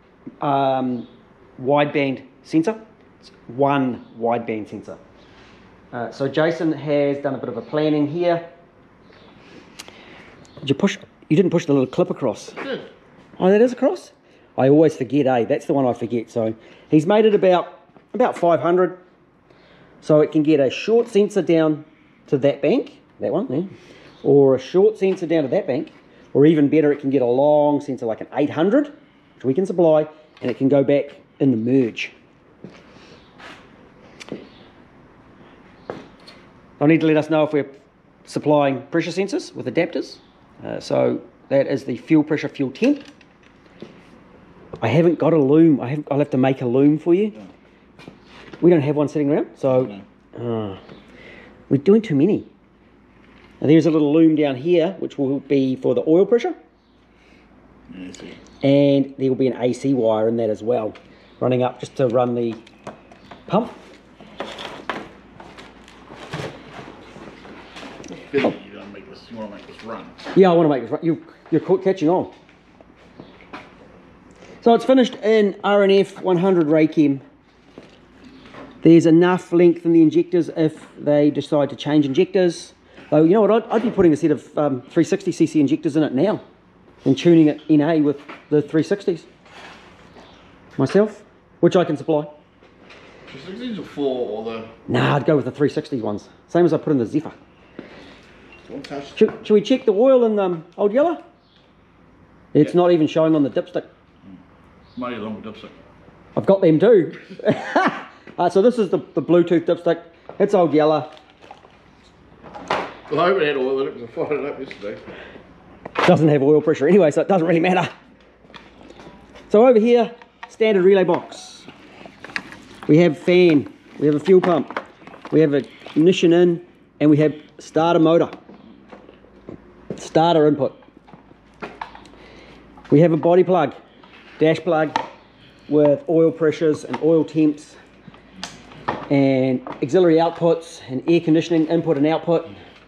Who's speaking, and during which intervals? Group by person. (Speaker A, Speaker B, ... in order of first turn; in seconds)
Speaker A: 0.4-5.0, 5.9-8.5, 10.6-12.6, 13.4-19.0, 20.0-23.7, 24.2-32.1, 36.8-37.7, 38.3-43.1, 44.8-47.4, 48.6-50.8, 51.7-52.5, 53.6-56.6, 58.6-62.6, 63.5-63.8, 70.3-72.3, 74.6-77.2, 78.8-86.4, 87.0-89.3, 90.8-92.3, 94.9-97.4, 99.2-101.2, 102.5-103.9, 106.4-111.1, 116.0-117.9, 119.5-121.7, 122.9-124.8, 125.3-128.3, 130.0-130.8, 132.9-133.7, 134.4-135.0, 135.7-137.8, 139.1-142.6
Speaker B: 12.6-12.9, 49.7-50.0, 57.9-58.4, 68.1-70.2, 93.3-94.7, 98.7-99.2, 105.0-105.8, 113.1-115.0